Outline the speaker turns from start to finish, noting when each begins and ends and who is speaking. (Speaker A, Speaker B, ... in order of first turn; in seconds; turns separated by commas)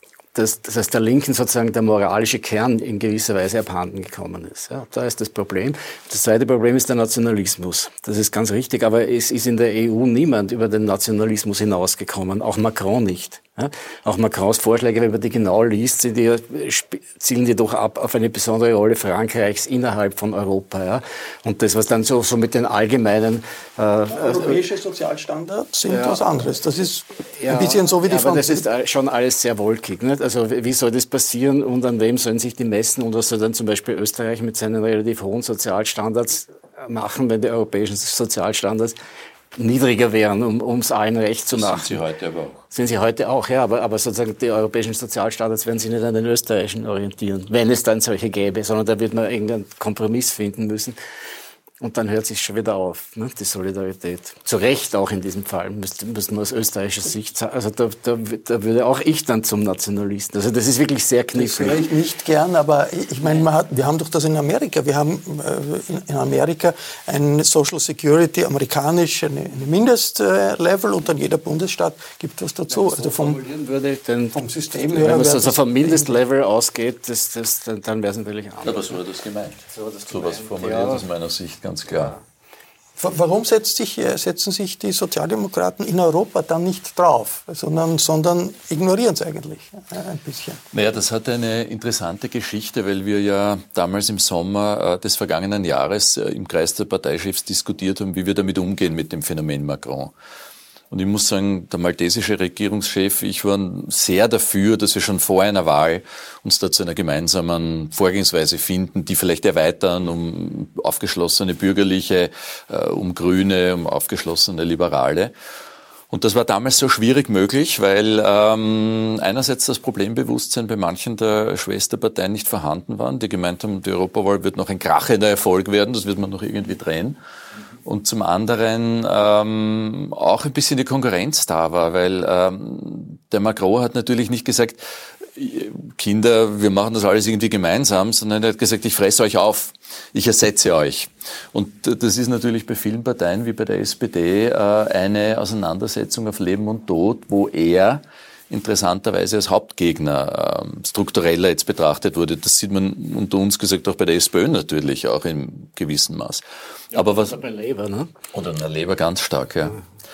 Speaker A: 0.3-24.6, Speaker B: 24.1-28.6, Speaker A: 25.9-26.2, Speaker A: 27.4-38.9, Speaker A: 39.5-42.0, Speaker C: 41.5-42.6, Speaker A: 42.7-51.0, Speaker A: 51.8-61.9, Speaker B: 61.3-73.4, Speaker A: 72.7-74.3, Speaker B: 74.3-76.2, Speaker A: 74.9-79.0, Speaker C: 78.6-82.1, Speaker A: 79.7-81.0, Speaker B: 83.0-90.6, Speaker C: 90.7-100.1, Speaker C: 100.9-115.3, Speaker C: 116.1-127.2, Speaker C: 127.8-157.4, Speaker A: 156.9-158.1, Speaker C: 158.3-159.8